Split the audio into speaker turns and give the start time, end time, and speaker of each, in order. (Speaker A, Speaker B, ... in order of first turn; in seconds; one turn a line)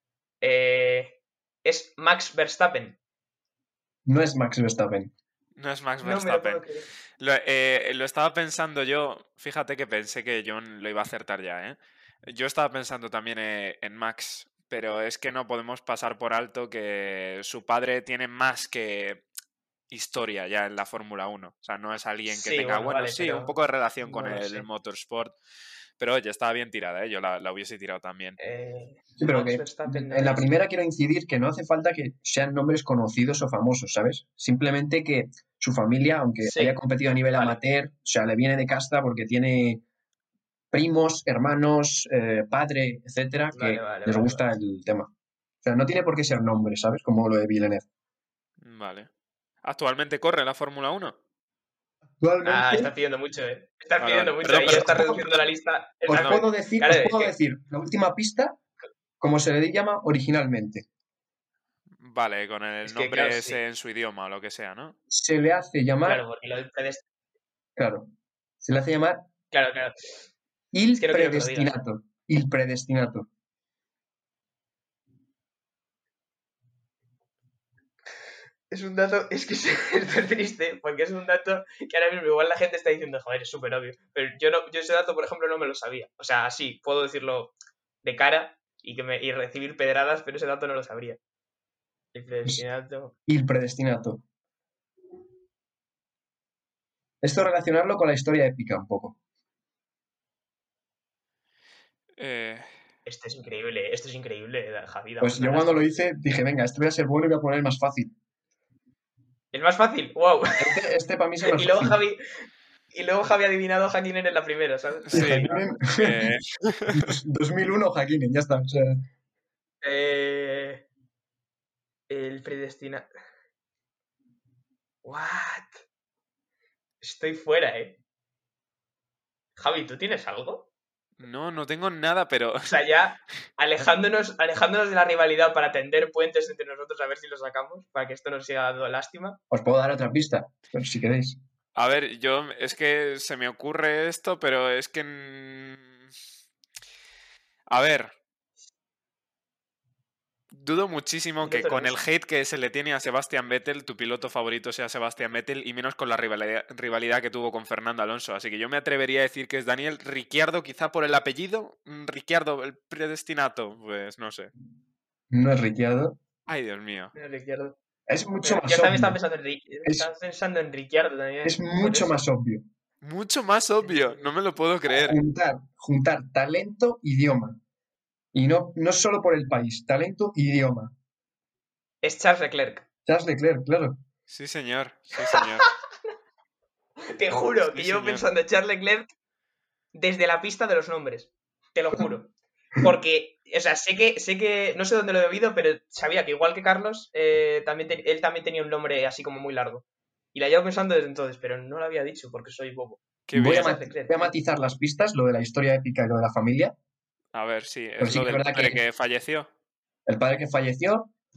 Speaker A: 0.4-3.0
Speaker B: 4.0-5.1
Speaker C: 5.6-6.7
Speaker A: 6.0-6.9
Speaker C: 7.2-19.2
Speaker C: 19.9-25.4
Speaker A: 22.3-24.7
Speaker C: 26.0-28.4
Speaker A: 28.4-30.5
Speaker B: 29.2-39.8
Speaker A: 36.4-36.8
Speaker A: 37.3-37.6
Speaker B: 40.7-45.1
Speaker A: 43.5-44.5
Speaker B: 45.6-47.9
Speaker C: 48.6-49.1
Speaker C: 49.6-51.2
Speaker B: 52.2-52.9
Speaker A: 52.4-57.3
Speaker C: 54.0-55.4
Speaker B: 54.6-55.2
Speaker B: 56.0-58.6
Speaker C: 56.1-56.4
Speaker B: 59.2-60.9
Speaker C: 62.0-65.0
Speaker A: 62.8-63.6
Speaker B: 65.1-66.2
Speaker A: 66.0-67.0
Speaker B: 67.8-69.2
Speaker A: 69.5-70.3
Speaker B: 70.7-73.3
Speaker A: 70.9-71.8
Speaker A: 78.7-91.2
Speaker A: 92.1-93.1
Speaker B: 93.3-94.2
Speaker B: 97.2-99.2
Speaker C: 102.2-102.7
Speaker A: 103.0-106.0
Speaker B: 105.2-108.1
Speaker A: 109.5-110.8
Speaker B: 110.6-112.0
Speaker A: 111.4-115.7
Speaker C: 115.1-117.1
Speaker B: 115.1-116.3
Speaker B: 116.9-119.0
Speaker A: 119.8-120.8
Speaker A: 122.1-123.1
Speaker A: 125.0-125.8
Speaker A: 127.0-128.0
Speaker A: 129.6-130.7
Speaker C: 131.2-132.8
Speaker A: 132.6-139.4
Speaker B: 139.5-141.4
Speaker C: 141.7-146.0
Speaker C: 147.7-148.1
Speaker C: 150.5-164.5
Speaker A: 151.4-151.9
Speaker B: 165.3-166.2
Speaker C: 166.5-167.1
Speaker A: 167.1-167.8
Speaker B: 168.1-169.2
Speaker A: 168.4-172.2
Speaker B: 169.8-170.1
Speaker B: 171.4-172.6
Speaker C: 173.0-175.2
Speaker A: 173.8-174.3
Speaker B: 174.9-177.6
Speaker B: 178.3-180.9
Speaker A: 182.0-182.8
Speaker B: 183.1-184.0
Speaker C: 184.3-185.7
Speaker A: 185.3-185.6
Speaker A: 187.1-189.1
Speaker C: 187.6-188.2
Speaker A: 189.9-204.3
Speaker C: 203.3-203.8
Speaker B: 203.3-206.7
Speaker C: 207.3-209.5
Speaker B: 208.0-208.8
Speaker B: 210.1-211.1